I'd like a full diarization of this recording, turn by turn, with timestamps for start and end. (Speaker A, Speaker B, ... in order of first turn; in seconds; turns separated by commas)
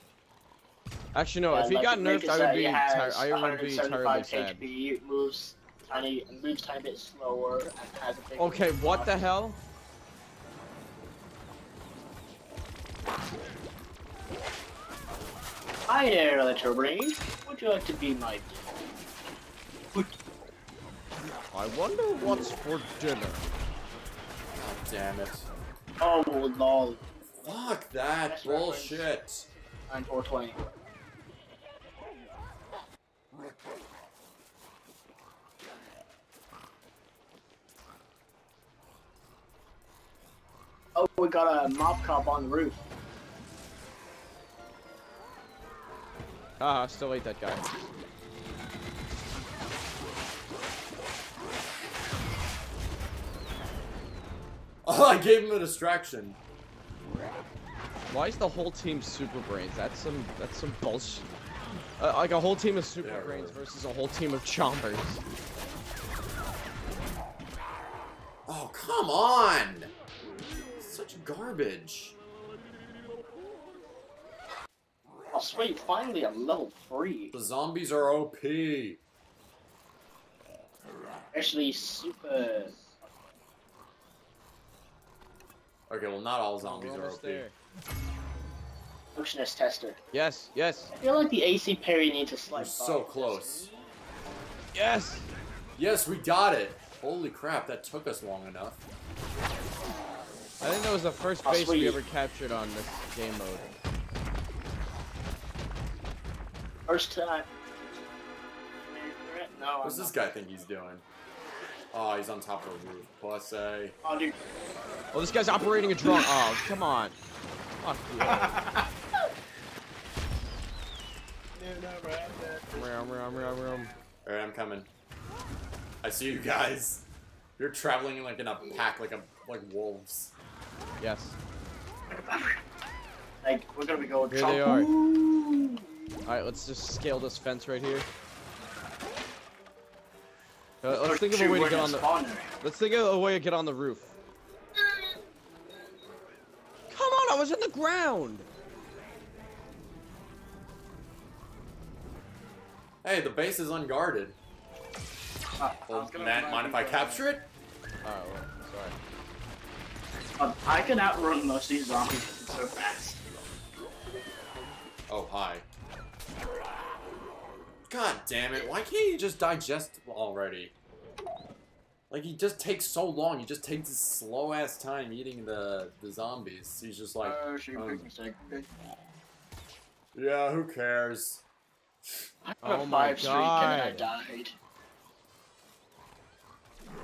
Speaker A: 1.1-4.6, Speaker B: 1.5-9.2, Speaker A: 8.4-9.6, Speaker B: 15.9-18.8, Speaker A: 21.5-23.4, Speaker C: 24.5-25.5, Speaker B: 26.0-29.1, Speaker C: 27.3-29.5, Speaker B: 29.9-30.6, Speaker B: 41.0-42.8, Speaker A: 46.6-47.9, Speaker C: 54.8-56.4, Speaker A: 58.1-61.3, Speaker A: 62.0-65.2, Speaker C: 63.0-63.6, Speaker C: 68.5-69.9, Speaker C: 70.8-72.2, Speaker B: 75.3-77.3, Speaker C: 77.3-79.0, Speaker B: 81.3-82.8, Speaker C: 85.9-87.4, Speaker A: 86.6-87.5, Speaker B: 89.2-90.0, Speaker A: 90.1-90.9, Speaker B: 90.9-93.9, Speaker C: 92.5-93.7, Speaker A: 94.7-95.3, Speaker C: 95.8-98.8, Speaker A: 100.6-103.7, Speaker B: 101.4-102.0, Speaker B: 106.9-107.5, Speaker B: 108.9-110.2, Speaker C: 109.8-111.0, Speaker C: 111.9-114.0, Speaker B: 114.0-114.3, Speaker A: 115.1-117.2, Speaker B: 116.0-116.4, Speaker A: 117.8-118.6, Speaker B: 118.2-118.9, Speaker B: 121.6-122.7, Speaker A: 122.7-123.9, Speaker C: 124.2-124.9, Speaker C: 126.0-127.0, Speaker C: 127.6-130.3, Speaker A: 131.0-131.4, Speaker B: 132.1-132.6, Speaker B: 133.4-135.9, Speaker A: 134.3-134.9, Speaker A: 136.3-138.1, Speaker A: 140.8-142.1, Speaker B: 140.9-142.6, Speaker A: 142.6-144.2, Speaker A: 146.9-148.5, Speaker C: 153.0-154.4, Speaker B: 155.6-157.2, Speaker C: 155.9-157.5, Speaker A: 158.0-158.9, Speaker B: 160.4-163.2, Speaker C: 165.1-165.7, Speaker C: 167.9-170.7, Speaker C: 172.1-178.1, Speaker B: 177.2-178.7, Speaker C: 180.2-181.4, Speaker B: 182.4-184.6, Speaker A: 182.6-184.1